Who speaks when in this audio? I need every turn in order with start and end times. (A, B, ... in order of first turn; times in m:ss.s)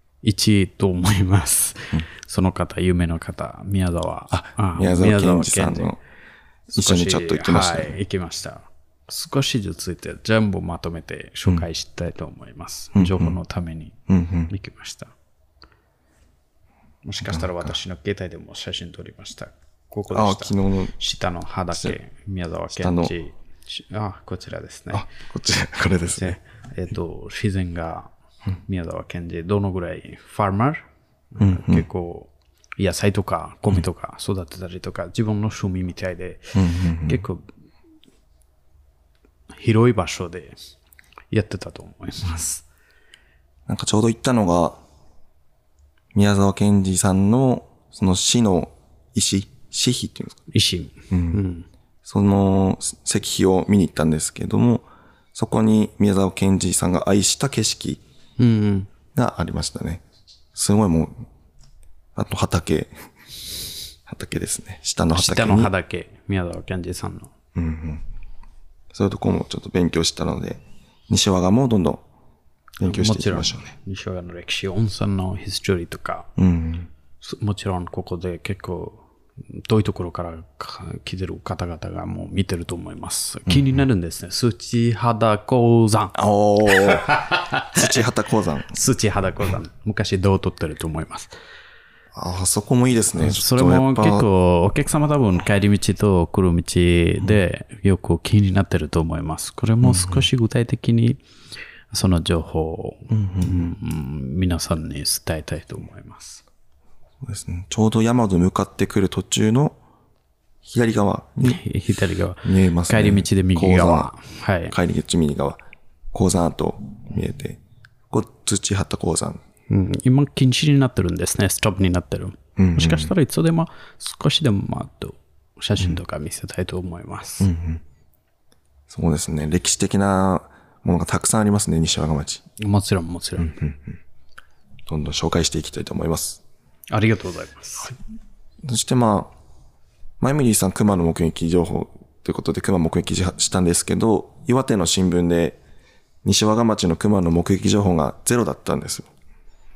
0:00.2-0:05.9 A
0:04.3-0:06.0 B
0:06.7-0:14.0 A
0:06.7-0:08.0 B
0:12.9-0:13.4 B
0:14.1-0:14.5 B
0:14.5-0:15.1 A
0:17.0-0:25.1 A
0:17.2-0:17.7 B
0:20.1-0:21.0 B
0:22.8-0:23.1 B
0:24.9-0:26.4 B
0:26.1-0:28.1 A
0:28.7-0:37.4 A
0:31.4-0:31.8 B
0:36.5-0:37.2 B
0:39.6-0:40.6 A
0:41.3-0:42.6 A
0:43.7-0:44.8 B
0:46.1-0:50.4 B
0:50.5-0:51.7 A
0:51.1-0:51.4 B
0:52.0-0:58.0 B
0:58.4-0:58.9 A
0:59.2-1:00.0 B
1:00.5-1:01.2 B
1:02.2-1:02.9 B
1:04.1-1:05.7 B
1:05.1-1:07.3 A
1:07.6-1:08.0 B
1:08.9-1:12.0 B
1:12.8-1:13.7 B
1:12.8-1:16.3 A
1:16.4-1:16.9 B
1:17.2-1:28.0 A
1:23.5-1:23.8 B
1:26.2-1:27.1 B
1:27.7-1:28.8 B
1:28.7-1:31.3 A
1:32.1-1:34.3 B
1:33.2-1:41.2 A
1:39.8-1:40.3 B
1:41.9-1:46.4 A
1:43.1-1:43.7 B
1:47.2-1:49.8 B
1:50.6-1:51.6 B
1:51.4-1:54.8 A
1:52.4-1:54.1 B
1:54.7-1:55.6 B
1:56.1-1:59.4 B
1:59.7-2:07.5 A
2:02.6-2:03.1 B
2:07.4-2:07.8 B
2:08.9-2:12.4 B
2:12.6-2:13.6 A
2:13.4-2:14.0 B
2:14.9-2:16.4 B
2:16.9-2:18.0 A
2:18.6-2:19.3 B
2:20.2-2:25.6 B
2:26.2-2:29.1 B